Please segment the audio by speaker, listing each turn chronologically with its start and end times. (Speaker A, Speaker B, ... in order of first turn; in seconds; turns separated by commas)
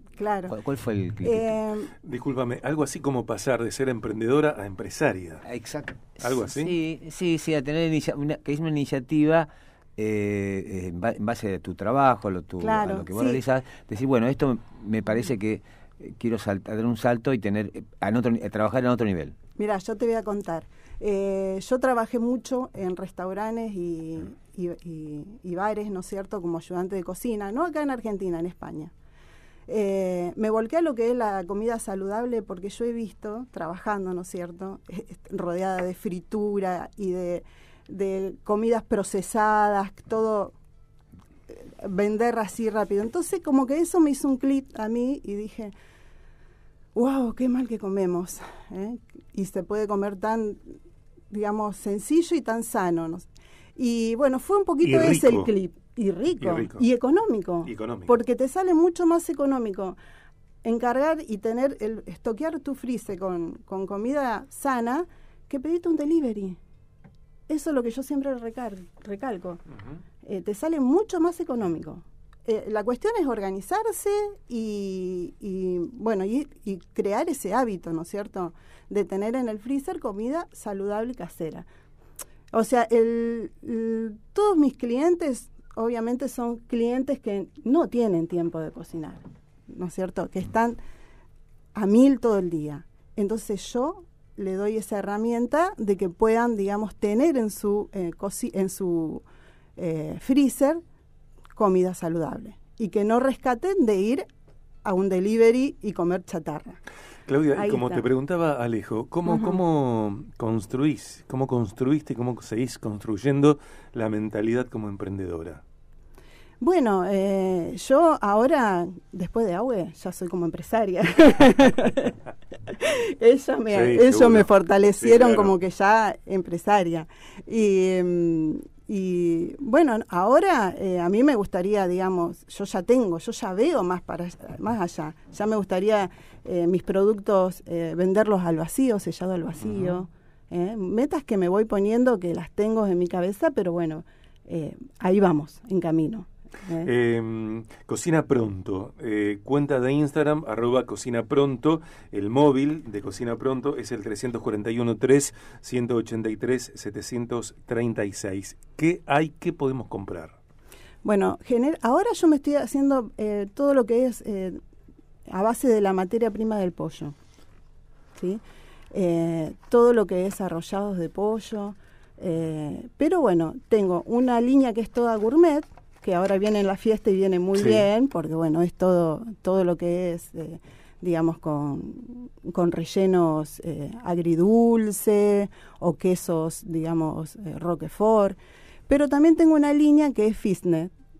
Speaker A: 0.2-0.6, Speaker B: 0.5-1.6, Speaker A: 1.2-1.9, Speaker C: 2.0-5.4, Speaker B: 5.4-19.3, Speaker C: 6.2-6.7, Speaker A: 12.6-13.4, Speaker A: 19.6-28.9, Speaker A: 29.7-40.5, Speaker A: 41.5-45.7, Speaker A: 46.9-50.7, Speaker A: 51.3-60.0, Speaker C: 54.8-55.5, Speaker C: 56.4-56.8, Speaker C: 57.6-58.1, Speaker A: 60.6-66.6, Speaker A: 67.5-69.6, Speaker A: 70.2-81.6, Speaker A: 82.5-90.8, Speaker A: 91.7-99.2, Speaker A: 99.8-100.8, Speaker A: 101.5-104.2, Speaker A: 104.8-106.8, Speaker C: 107.3-115.6, Speaker A: 107.5-108.0, Speaker A: 109.2-109.6, Speaker A: 116.6-122.2, Speaker A: 122.7-146.9, Speaker C: 123.7-125.5, Speaker C: 146.8-160.3, Speaker A: 161.0-164.6, Speaker A: 165.3-167.1, Speaker A: 168.2-190.9, Speaker C: 177.6-177.8